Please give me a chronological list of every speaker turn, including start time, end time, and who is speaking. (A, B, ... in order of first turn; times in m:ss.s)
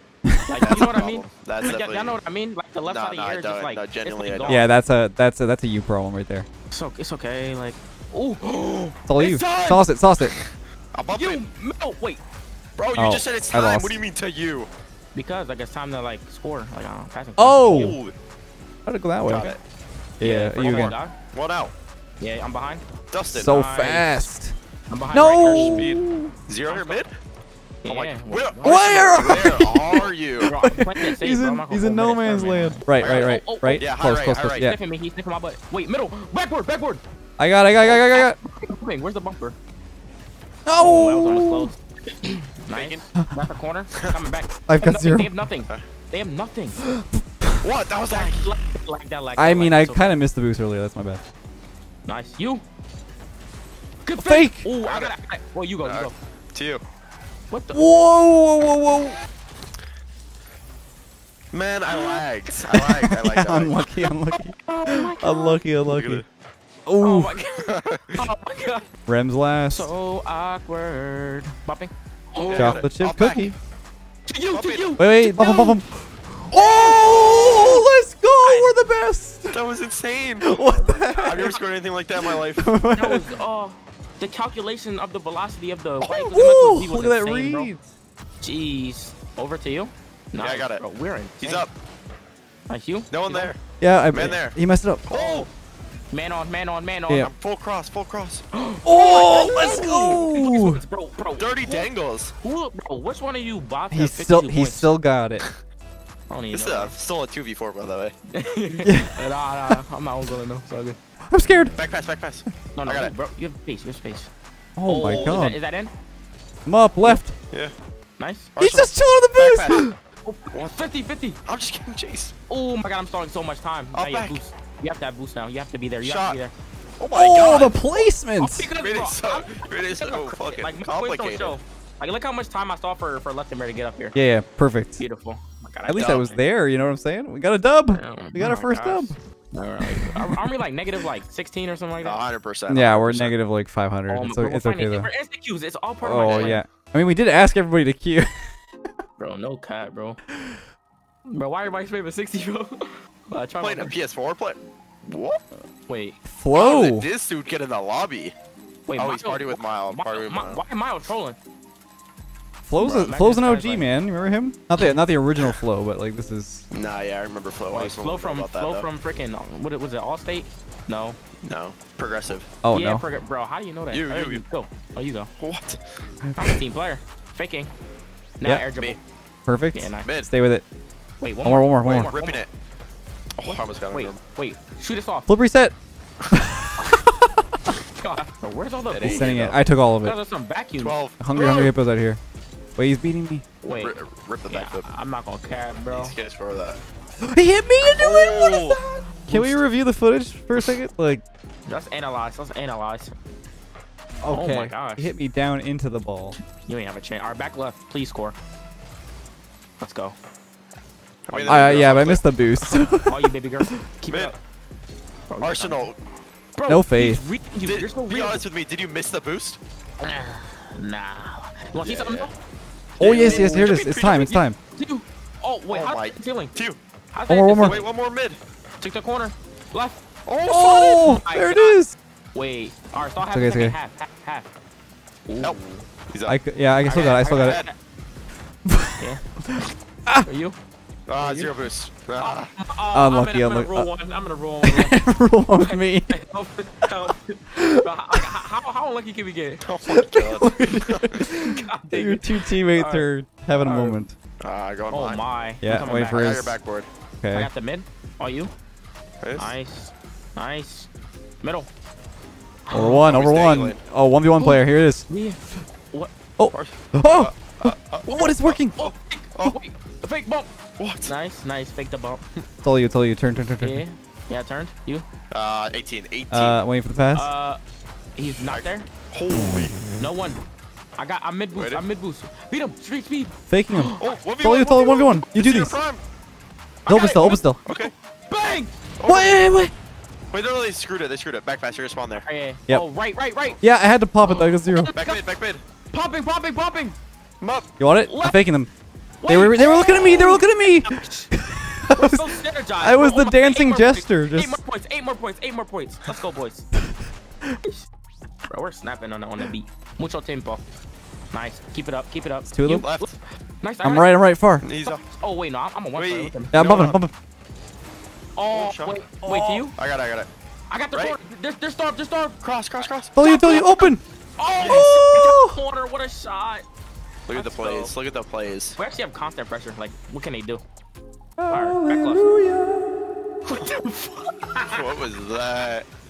0:00.3-0:00.9 A
0:00.4-0:04.7 B
0:00.6-0:02.2 C
0:02.8-0:04.7 C
0:04.5-0:06.4 A
0:06.7-0:09.8 B
0:09.1-0:10.3 A
0:10.9-0:11.4 C
0:11.1-0:12.2 B
0:12.8-0:14.7 C
0:12.9-0:14.0 A
0:15.1-0:18.0 B
0:17.4-0:18.0 A
0:17.7-0:18.1 C
0:18.8-0:19.5 A
0:19.2-0:19.6 C
0:19.3-0:19.5 B
0:20.2-0:20.9 A
0:20.2-0:21.1 B
0:20.6-0:21.7 C
0:22.2-0:22.8 B
0:23.1-0:23.5 C
0:23.3-0:24.5 A
0:23.4-0:24.3 B
0:24.9-0:26.0 B
0:25.1-0:26.3 A
0:25.4-0:27.1 C
0:26.6-0:27.0 B
0:27.8-0:29.6 B
0:27.8-0:30.5 C
0:28.6-0:34.8 A
0:30.4-0:33.9 B
0:33.0-0:34.7 C
0:34.5-0:37.0 B
0:37.4-0:38.4 A
0:37.8-0:39.6 B
0:40.6-0:41.7 A
0:40.7-0:46.8 B
0:42.7-0:43.0 C
0:44.7-0:45.3 A
0:47.0-0:47.5 A
0:47.6-0:48.5 C
0:48.1-0:50.2 B
0:49.4-0:51.2 A
0:52.0-0:52.6 B
0:54.0-0:56.1 B
0:54.1-0:54.7 A
0:54.8-0:55.1 C
0:55.8-0:56.8 C
0:57.5-0:57.9 B
0:57.7-0:59.2 A
1:01.5-1:04.0 C
1:01.9-1:02.2 B
1:02.7-1:06.2 A
1:04.3-1:05.6 B
1:05.9-1:06.2 C
1:06.8-1:07.4 A
1:07.0-1:08.9 B
1:07.6-1:08.3 C
1:09.1-1:09.9 A
1:09.7-1:12.9 B
1:12.4-1:13.5 C
1:12.5-1:13.5 A
1:14.3-1:15.8 B
1:14.5-1:15.0 C
1:15.0-1:19.7 A
1:16.5-1:17.9 B
1:18.4-1:18.8 B
1:19.5-1:22.6 C
1:20.4-1:21.6 A
1:20.8-1:21.6 B
1:22.2-1:23.3 A
1:22.9-1:27.7 B
1:26.0-1:27.8 A
1:28.4-1:31.6 B
1:30.4-1:30.8 C
1:31.4-1:31.7 C
1:32.7-1:33.5 B
1:33.1-1:33.6 C
1:33.8-1:35.0 A
1:34.1-1:35.5 C
1:35.1-1:35.5 B
1:36.1-1:37.3 B
1:37.2-1:38.4 C
1:38.5-1:45.0 B
1:38.8-1:40.8 A
1:39.7-1:40.2 C
1:41.4-1:42.3 C
1:43.9-1:45.4 A
1:46.3-1:47.0 B
1:46.5-1:48.1 C
1:48.3-1:51.0 B
1:48.8-1:49.2 A
1:51.3-1:51.8 A
1:51.7-1:53.1 C
1:52.7-1:54.3 B
1:54.8-1:55.6 A
1:54.8-1:55.9 B
1:56.6-1:57.3 A
1:58.2-1:58.5 B
1:58.6-1:59.9 C
1:58.6-2:00.0 A
2:00.2-2:01.4 B
2:00.5-2:00.8 C
2:01.4-2:02.3 C
2:02.5-2:06.5 B
2:03.9-2:04.3 C
2:06.0-2:06.4 C
2:07.0-2:07.8 C
2:07.1-2:08.7 A
2:08.4-2:14.2 B
2:08.8-2:11.6 C
2:14.1-2:15.0 A
2:15.0-2:16.4 B
2:15.8-2:19.1 A
2:15.9-2:16.3 C
2:17.9-2:22.2 B
2:19.8-2:20.5 A
2:22.0-2:23.3 C
2:22.7-2:25.1 A
2:24.1-2:26.6 B
2:26.0-2:28.3 A
2:26.1-2:26.6 C
2:29.2-2:30.2 B
2:31.3-2:33.9 B
2:33.6-2:35.4 C
2:35.9-2:36.2 B
2:36.2-2:37.1 A
2:36.5-2:38.3 C
2:38.9-2:41.4 B
2:39.0-2:40.6 C
2:42.6-2:46.6 A
2:42.8-2:43.9 B
2:46.7-2:48.9 C
2:47.7-2:51.2 B
2:51.4-2:52.5 C
2:52.6-2:53.0 A
2:52.7-2:55.3 B
2:53.9-2:54.4 C
2:55.4-2:55.8 C
2:56.3-2:56.6 A
2:56.4-2:57.7 B
2:58.4-2:59.0 B
2:59.5-3:00.6 A
2:59.7-3:00.1 B
3:00.0-3:00.3 C
3:01.2-3:02.4 B
3:01.4-3:02.1 A
3:01.8-3:02.5 C
3:03.4-3:04.2 C
3:03.4-3:05.3 B
3:05.3-3:05.8 A
3:06.3-3:07.3 A
3:08.0-3:09.4 B
3:08.9-3:09.6 C
3:09.0-3:10.2 A
3:10.0-3:11.5 B
3:10.8-3:11.7 C
3:11.2-3:12.2 A
3:12.8-3:13.4 A
3:13.6-3:14.0 B
3:13.6-3:14.8 C
3:14.5-3:16.1 B
3:15.9-3:16.8 C
3:17.2-3:21.2 A
3:17.8-3:19.5 C
3:19.3-3:19.5 B
3:21.7-3:23.1 B
3:24.2-3:26.4 A
3:24.3-3:25.1 B
3:26.6-3:28.3 B
3:29.8-3:30.1 B
3:31.3-3:32.2 C
3:31.3-3:32.0 B
3:31.4-3:33.7 A
3:33.0-3:34.3 B
3:35.3-3:35.9 B
3:35.4-3:36.0 C
3:36.5-3:38.4 B
3:36.7-3:37.2 A
3:37.6-3:39.6 C
3:40.0-3:42.3 B
3:41.8-3:42.3 C
3:43.0-3:44.4 C
3:43.0-3:44.6 A
3:44.7-3:46.5 B
3:45.7-3:46.8 C
3:47.1-3:47.9 B
3:47.3-3:47.8 A
3:47.6-3:48.4 C
3:48.8-3:50.0 B
3:50.2-3:51.1 C
3:50.5-3:51.9 A
3:50.8-3:51.8 B
3:52.3-3:54.5 B
3:53.3-3:53.8 A
3:55.2-3:55.8 B
3:55.4-3:57.7 C
3:56.2-3:57.6 A
3:56.9-3:57.8 B
3:58.6-4:00.2 A
3:59.0-3:59.2 B
4:00.2-4:00.6 B
4:01.1-4:02.5 C
4:01.2-4:01.5 B
4:02.2-4:05.0 B
4:02.9-4:03.9 A
4:04.6-4:06.1 A
4:05.6-4:09.6 B
4:07.6-4:08.2 A
4:09.6-4:11.3 C
4:09.9-4:14.2 A
4:11.2-4:14.0 B
4:14.4-4:15.2 C
4:14.9-4:16.3 B
4:15.6-4:16.6 A
4:15.8-4:16.9 C
4:17.2-4:17.5 A
4:17.3-4:18.5 B
4:19.2-4:19.5 C
4:19.3-4:20.9 B
4:21.4-4:21.7 B
4:22.7-4:23.0 B
4:22.7-4:25.0 A
4:23.0-4:23.8 C
4:24.3-4:26.1 B
4:26.4-4:28.8 A
4:26.5-4:29.5 C
4:28.7-4:30.5 B
4:30.8-4:31.1 C
4:31.0-4:32.2 B
4:32.6-4:33.8 A
4:33.6-4:35.0 B
4:35.3-4:36.6 C
4:36.3-4:37.3 A
4:37.1-4:37.6 B
4:38.2-4:38.9 B
4:38.3-4:39.8 C
4:39.9-4:40.4 B
4:41.0-4:44.2 B
4:41.5-4:41.8 C
4:43.5-4:45.8 A
4:44.0-4:46.0 C
4:46.8-4:48.7 B
4:46.9-4:47.6 A
4:47.6-4:47.9 C
4:49.0-4:49.4 C
4:49.0-4:49.7 A
4:50.3-4:52.2 C
4:52.2-4:53.6 B
4:53.6-4:54.9 A
4:54.2-4:55.2 B
4:54.9-4:55.6 C
4:55.9-4:57.0 B
4:57.4-4:57.7 C
4:57.8-4:58.7 A
4:58.0-4:58.5 B
4:59.2-5:01.3 B
4:59.3-5:04.6 A
5:01.9-5:06.7 B
5:08.4-5:10.6 B
5:11.3-5:16.5 B
5:12.5-5:12.9 A
5:12.7-5:13.1 C
5:13.8-5:14.6 A
5:14.6-5:15.0 C
5:15.9-5:17.0 C
5:16.5-5:17.1 A
5:18.4-5:19.7 B
5:18.5-5:19.0 C
5:19.2-5:19.6 A
5:19.7-5:20.3 C
5:20.7-5:22.4 B
5:22.4-5:23.2 C
5:23.1-5:24.0 A
5:23.2-5:26.6 B
5:24.5-5:25.0 C
5:24.6-5:25.5 A
5:27.3-5:28.8 C
5:27.3-5:27.9 B
5:28.8-5:30.6 B
5:31.4-5:32.9 A
5:31.5-5:32.3 B
5:33.4-5:34.9 B
5:34.6-5:35.8 C